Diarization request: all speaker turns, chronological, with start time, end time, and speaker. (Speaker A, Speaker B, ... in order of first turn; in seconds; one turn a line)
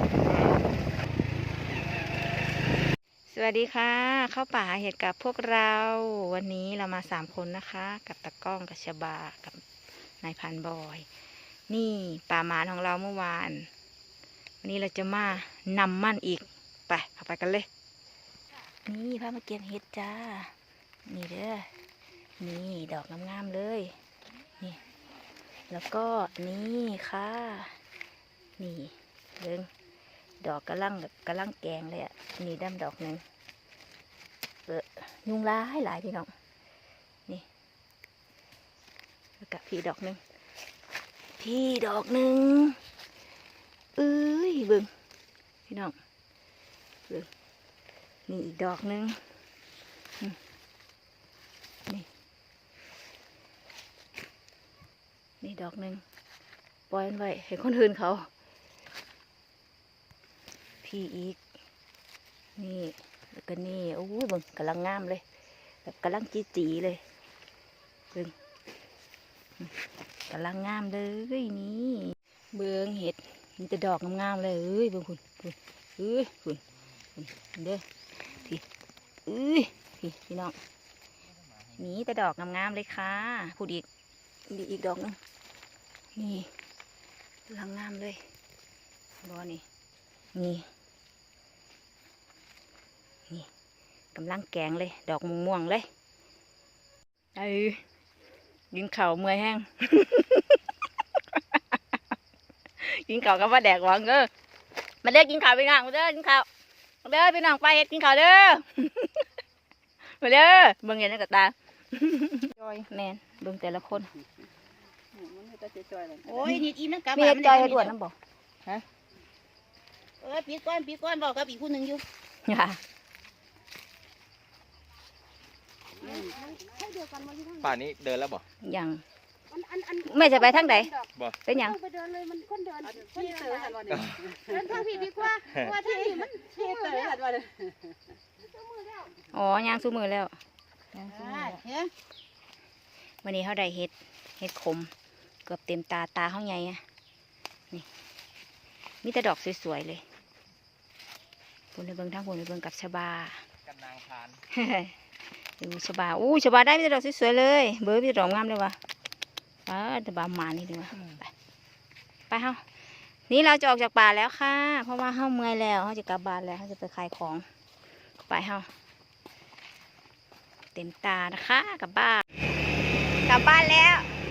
Speaker A: 0.3-0.6
Speaker B: 3.3-9.6
Speaker B: 10.2-11.1
Speaker B: 11.7-13.7
Speaker B: 14.6-17.7
Speaker B: 18.9-20.5
Speaker B: 21.1-21.7
Speaker B: 22.4-23.9
Speaker B: 25.7-27.8
Speaker B: 28.6-29.7
Speaker B: 30.4-33.2
Speaker B: 34.7-36.3
Speaker B: 39.4-40.2
Speaker B: 41.4-42.8
Speaker B: 44.0-44.9
Speaker B: 45.7-45.9
Speaker B: 48.3-49.2
Speaker B: 55.4-56.0
Speaker B: 56.9-58.3
Speaker B: 60.8-61.4
Speaker B: 62.5-65.2
Speaker B: 65.8-67.0
Speaker B: 70.3-76.6
Speaker B: 77.2-77.8
Speaker B: 79.2-80.6
Speaker B: 81.7-83.8
Speaker B: 84.5-85.2
Speaker B: 86.1-86.5
Speaker B: 87.5-88.2
Speaker B: 89.2-89.6
Speaker B: 90.3-90.7
Speaker B: 94.1-95.9
Speaker B: 97.3-97.8
Speaker B: 98.7-100.6
Speaker B: 101.3-101.8
Speaker B: 102.8-104.3
Speaker B: 105.0-106.5
Speaker B: 107.0-109.2
Speaker B: 110.1-114.1
Speaker C: 115.1-117.9
Speaker B: 116.4-118.1
Speaker C: 120.2-122.0
Speaker B: 122.4-122.8
Speaker C: 126.0-126.3
Speaker D: 126.0-127.6
Speaker A: 127.6-128.4
Speaker B: 128.6-129.0
Speaker D: 129.5-130.0
Speaker B: 130.0-130.9
Speaker B: 131.4-131.8
Speaker D: 131.8-133.9
Speaker C: 133.0-135.0
Speaker A: 133.9-134.2
Speaker D: 134.5-137.2
Speaker C: 135.7-137.5
Speaker B: 139.3-140.3
Speaker C: 141.0-141.9
Speaker D: 141.1-141.6
Speaker B: 143.2-144.9
Speaker B: 145.4-146.8
Speaker B: 149.0-150.0
Speaker B: 151.7-153.4
Speaker A: 153.7-154.4
Speaker B: 154.5-154.9
Speaker B: 155.6-158.8
Speaker B: 159.7-161.3
Speaker B: 162.3-162.6
Speaker B: 163.3-167.4
Speaker B: 168.3-168.7
Speaker B: 170.7-172.2
Speaker B: 173.2-174.1